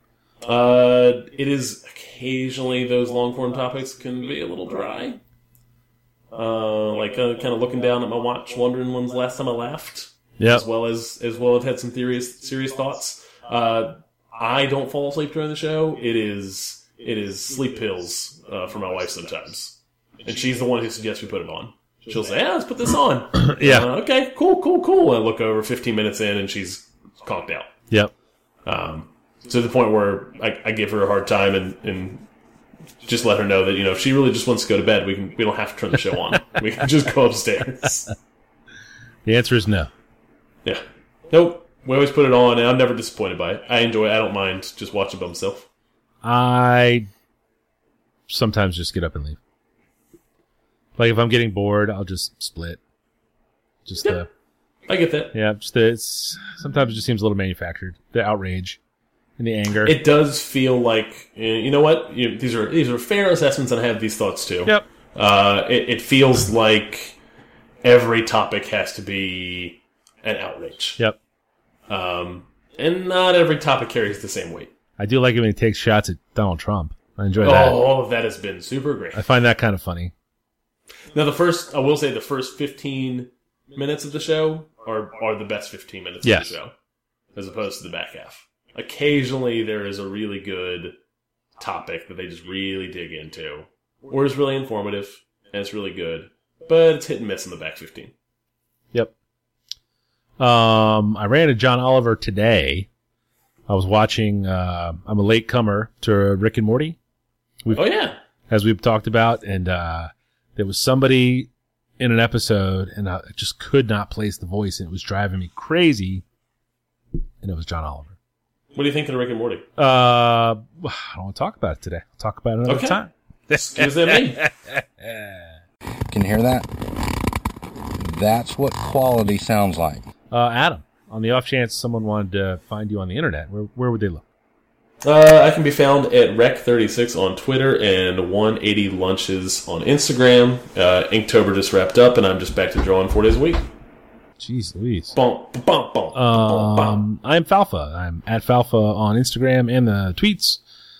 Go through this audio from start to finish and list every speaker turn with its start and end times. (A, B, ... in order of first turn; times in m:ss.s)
0:00.4-0:05.2 A
0:06.3-0:27.7 A
0:10.4-0:10.6 B
0:23.4-0:23.9 B
0:28.6-0:32.3 A
0:33.0-0:38.1 A
0:39.2-0:39.9 B
0:40.6-0:45.7 A
0:46.2-0:47.1 B
0:48.3-0:49.4 B
0:51.0-0:52.8 B
0:53.8-0:54.3 B
0:54.9-0:55.3 A
0:55.3-0:58.8 B
0:59.4-1:00.0 B
0:59.8-1:07.2 A
1:07.8-1:11.0 A
1:11.9-1:14.7 A
1:15.0-1:17.8 B
1:17.4-1:19.2 A
1:19.1-1:20.1 B
1:21.1-1:26.7 A
1:26.2-1:26.6 B
1:27.3-1:30.9 A
1:31.6-1:38.1 A
1:40.4-1:42.9 B
1:43.7-1:47.0 B
1:47.7-1:48.2 A
1:48.5-1:56.2 B
1:57.4-1:58.2 B
1:58.7-1:59.7 A
1:59.8-2:05.4 B
2:02.6-2:03.0 A
2:03.5-2:04.4 A
2:06.1-2:07.1 C
2:08.0-2:10.1 C
2:10.3-2:14.2 B
2:15.0-2:23.7 A
2:24.4-2:25.1 B
2:25.1-2:27.0 A
2:26.1-2:30.6 B